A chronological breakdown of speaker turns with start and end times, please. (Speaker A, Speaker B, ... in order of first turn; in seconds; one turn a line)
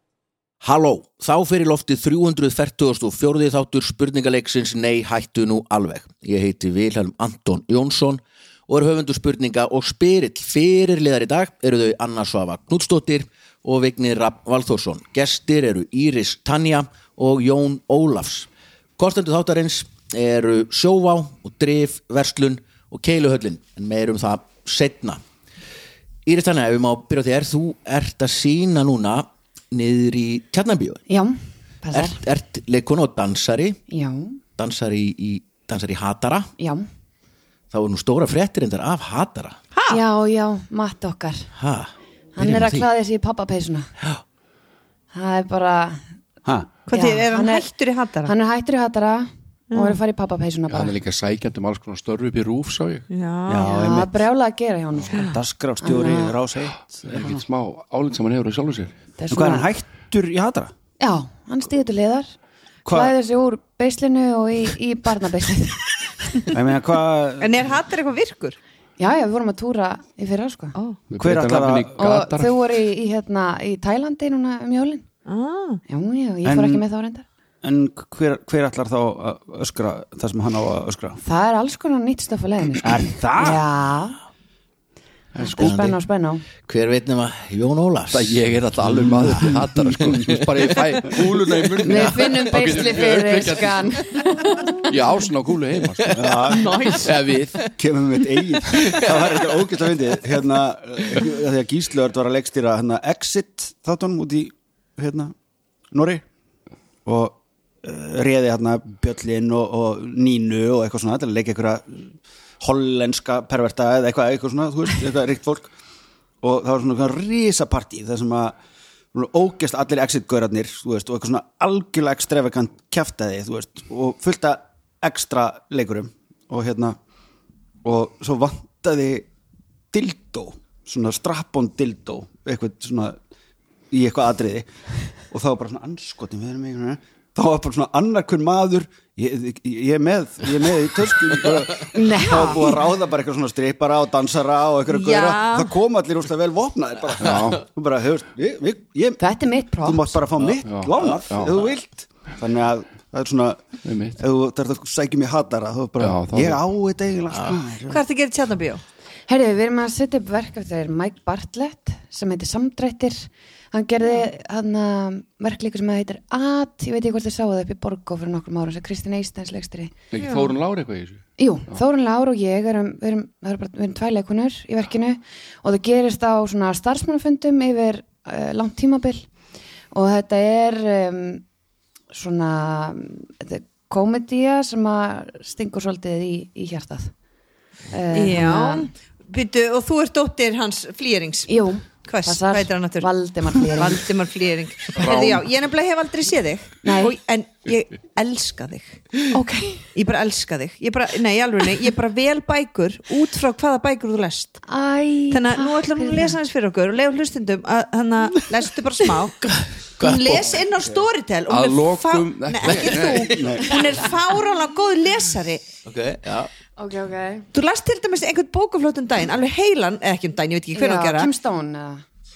Speaker A: 0.6-25.2
Speaker A: 26.3-31.0
Speaker B: 31.1-32.2
Speaker A: 31.9-33.8
Speaker B: 33.9-34.4
Speaker A: 34.6-36.5
Speaker B: 36.6-36.9
Speaker A: 37.7-39.6
Speaker C: 39.7-40.0
Speaker B: 39.9-41.5
Speaker A: 41.5-42.9
Speaker B: 42.4-43.9
Speaker B: 45.1-46.0
Speaker C: 46.9-48.3
Speaker B: 46.9-47.7
Speaker B: 48.2-51.0
Speaker C: 49.7-50.0
Speaker D: 50.7-53.1
Speaker C: 53.1-53.7
Speaker E: 53.5-54.2
Speaker B: 53.5-56.4
Speaker E: 55.1-57.4
Speaker D: 57.0-58.9
Speaker B: 59.2-59.7
Speaker E: 59.3-60.7
Speaker B: 61.0-62.3
Speaker E: 62.9-63.1
Speaker B: 62.9-66.5
Speaker E: 66.5-67.7
Speaker C: 67.4-68.6
Speaker B: 69.0-70.8
Speaker C: 70.8-71.0
Speaker D: 71.1-72.5
Speaker E: 71.2-72.0
Speaker B: 72.0-75.0
Speaker C: 75.3-75.8
Speaker B: 75.9-77.3
Speaker E: 76.5-76.8
Speaker E: 77.6-81.2
Speaker B: 81.2-84.2
Speaker E: 82.8-83.6
Speaker D: 85.3-85.7
Speaker B: 85.5-86.5
Speaker A: 85.5-86.0
Speaker A: 86.6-88.5
Speaker D: 88.1-94.0
Speaker E: 89.0-90.2
Speaker A: 89.1-90.6
Speaker A: 91.8-92.3
Speaker B: 91.8-94.7
Speaker D: 94.8-96.2
Speaker A: 96.0-97.7
Speaker E: 96.1-96.9
Speaker D: 97.0-97.6
Speaker E: 97.7-105.3
Speaker A: 98.7-99.5
Speaker E: 105.9-106.2
Speaker E: 107.0-115.7
Speaker E: 116.4-118.6
Speaker E: 119.1-127.0
Speaker E: 127.8-129.3
Speaker E: 129.9-133.2
Speaker E: 133.9-134.7
Speaker E: 135.3-149.2
Speaker B: 141.9-142.8
Speaker C: 144.9-145.7
Speaker D: 147.2-147.6
Speaker B: 149.2-150.2
Speaker E: 149.8-153.6
Speaker D: 150.4-151.7
Speaker D: 153.8-154.2
Speaker E: 154.2-158.0
Speaker D: 156.0-156.6
Speaker A: 157.3-157.6
Speaker C: 157.9-158.8
Speaker B: 159.3-169.9
Speaker D: 170.1-171.8
Speaker C: 170.2-170.5
Speaker B: 171.4-179.3
Speaker B: 179.9-181.4
Speaker B: 182.1-187.1
Speaker B: 187.9-188.9
Speaker C: 188.1-199.3
Speaker B: 191.5-194.1
Speaker D: 194.9-195.4
Speaker B: 196.8-197.2
Speaker B: 199.3-199.9
Speaker C: 199.9-204.6
Speaker B: 204.7-206.4
Speaker C: 205.3-209.5
Speaker A: 209.4-210.7
Speaker C: 210.0-215.6
Speaker D: 211.5-213.3
Speaker A: 212.6-213.6
Speaker E: 213.3-213.8
Speaker A: 215.8-216.5
Speaker B: 216.8-217.5
Speaker C: 217.5-221.3
Speaker B: 220.7-222.0